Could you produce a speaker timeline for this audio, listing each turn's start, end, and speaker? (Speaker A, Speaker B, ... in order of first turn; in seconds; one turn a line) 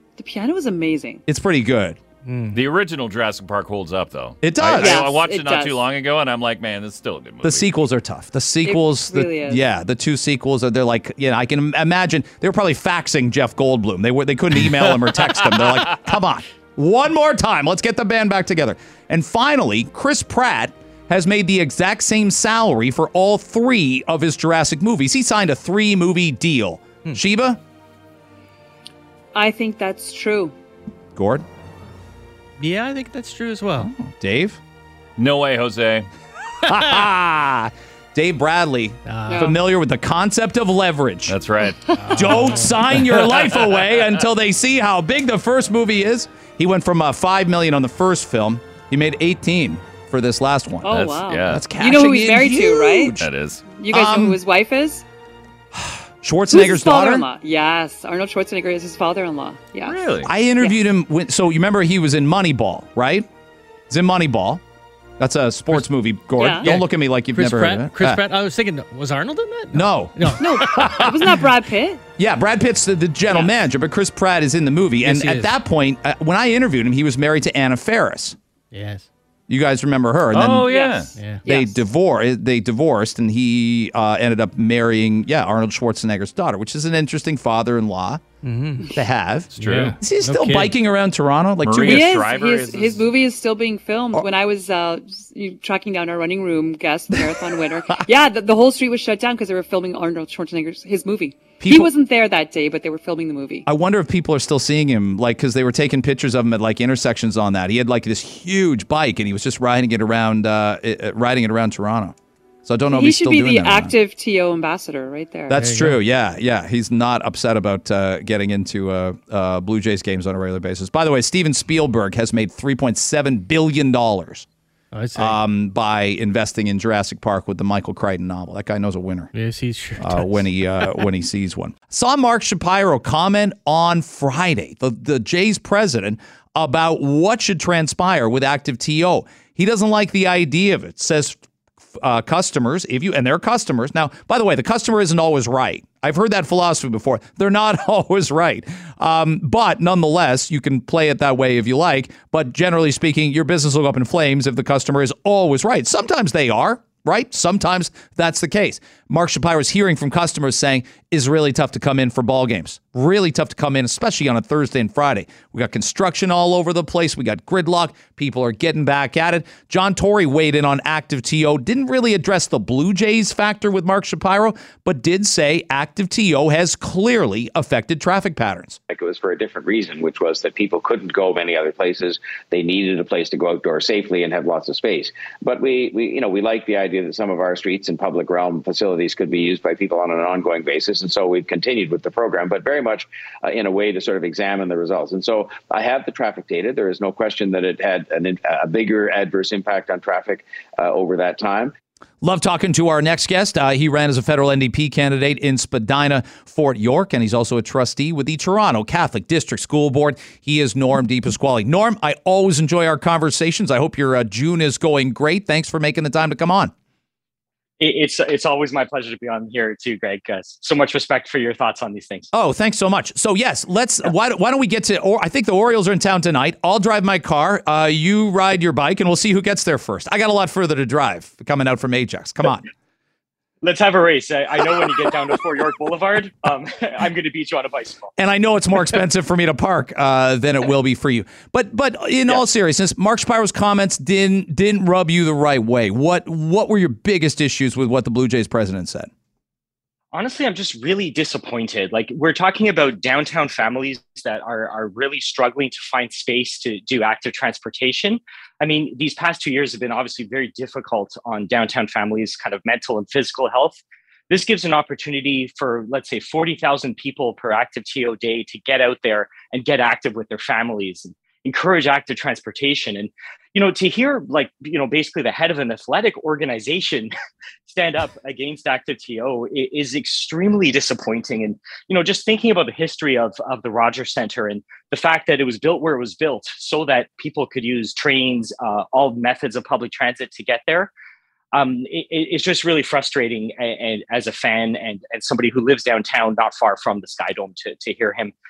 Speaker A: 0.2-1.2
Speaker B: 1.2-2.0
Speaker C: 2.2-2.6
Speaker D: 2.5-7.7
Speaker B: 4.4-5.0
Speaker A: 4.7-5.9
Speaker B: 7.4-27.6
Speaker A: 8.6-9.6
Speaker A: 29.3-30.5
Speaker B: 31.1-31.4
Speaker C: 32.6-33.9
Speaker B: 33.8-34.6
Speaker D: 35.2-36.1
Speaker B: 36.6-41.4
Speaker C: 39.0-39.5
Speaker A: 39.3-39.6
Speaker D: 41.3-44.1
Speaker A: 41.9-42.1
Speaker C: 42.0-42.8
Speaker B: 42.1-53.3
Speaker A: 50.8-55.0
Speaker D: 50.9-51.7
Speaker D: 53.2-53.6
Speaker B: 53.9-54.4
Speaker B: 55.7-57.2
Speaker A: 56.5-60.0
Speaker D: 59.9-60.3
Speaker B: 60.2-63.3
Speaker B: 63.9-64.6
Speaker B: 65.2-68.2
Speaker A: 66.4-66.7
Speaker C: 66.6-71.0
Speaker B: 69.7-71.1
Speaker A: 70.4-72.0
Speaker D: 70.7-71.0
Speaker B: 72.2-78.4
Speaker C: 75.0-75.6
Speaker C: 78.7-79.1
Speaker B: 79.5-80.7
Speaker D: 80.3-81.1
Speaker A: 80.7-81.8
Speaker C: 81.1-81.4
Speaker B: 81.5-88.2
Speaker C: 88.4-88.9
Speaker B: 88.9-92.2
Speaker C: 89.5-90.8
Speaker D: 89.6-90.0
Speaker D: 91.6-93.1
Speaker A: 91.8-103.6
Speaker B: 101.6-101.9
Speaker B: 103.6-113.9
Speaker A: 112.9-115.6
Speaker B: 115.5-124.5
Speaker C: 115.5-116.0
Speaker C: 124.9-125.4
Speaker B: 125.1-129.3
Speaker C: 129.3-130.4
Speaker B: 130.0-141.4
Speaker B: 141.9-178.8
Speaker E: 178.9-201.7
Speaker B: 202.2-216.7
Speaker F: 217.8-222.3
Speaker B: 222.3-232.7
Speaker F: 233.6-238.1
Speaker B: 238.2-249.1
Speaker F: 250.1-263.8
Speaker F: 264.3-277.1
Speaker F: 277.7-290.9
Speaker F: 291.5-298.3